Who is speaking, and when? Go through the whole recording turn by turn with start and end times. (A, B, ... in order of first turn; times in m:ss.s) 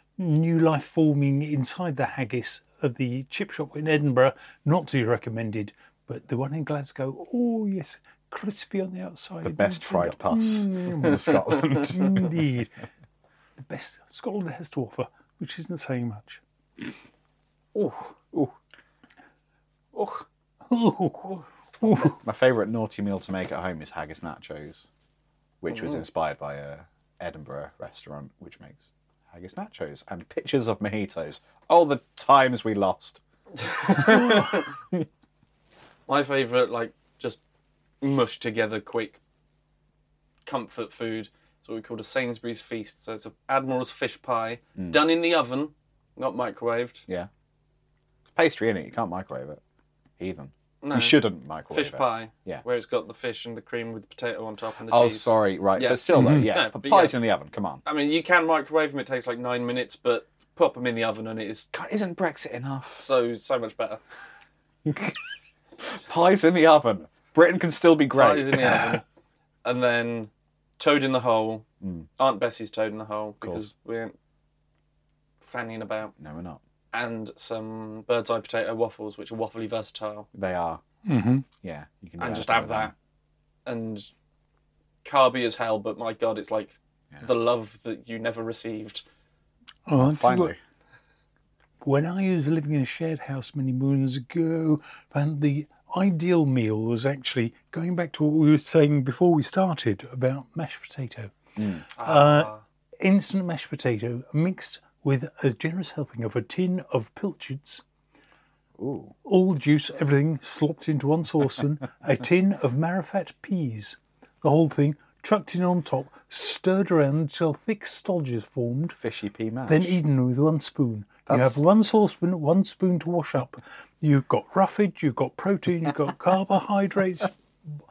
0:00.2-0:12.8 A
0:09.4-0:12.3 B
0:13.6-0:16.4 A
0:17.7-0:18.1 C
0:19.9-0:20.2 C
0:20.7-0:22.2 A
0:22.1-0:24.9 B
0:25.6-0:33.2 B
0:33.6-0:34.7 C
0:33.8-0:35.0 B
0:36.1-0:37.4 C
0:38.0-0:39.2 C
0:40.4-0:47.0 C
0:44.8-0:45.0 B
0:48.3-0:49.6 B
0:50.2-0:52.6 B
0:50.8-0:57.2 C
0:54.9-0:57.8 B
0:56.1-0:56.5 A
0:57.8-1:01.7 C
1:01.7-1:03.0 B
1:02.9-1:04.0 C
1:04.8-1:05.2 B
1:05.9-1:09.0 B
1:08.1-1:09.0 C
1:09.6-1:11.6 C
1:11.8-1:12.1 B
1:12.2-1:14.1 C
1:13.4-1:13.7 B
1:15.4-1:16.1 C
1:16.2-1:16.6 B
1:16.9-1:20.3 C
1:20.3-1:20.8 B
1:21.0-1:21.4 A
1:21.6-1:22.9 B
1:22.2-1:22.9 C
1:23.6-1:24.1 C
1:25.0-1:29.0 C
1:29.9-1:30.5 A
1:30.0-1:30.6 B
1:31.8-1:41.3 A
1:41.6-1:41.8 B
1:41.9-1:42.6 C
1:42.0-1:47.8 A
1:48.8-1:49.1 B
1:49.2-1:59.0 A
1:59.0-2:00.0 B
1:59.7-2:07.4 A
2:01.3-2:01.6 B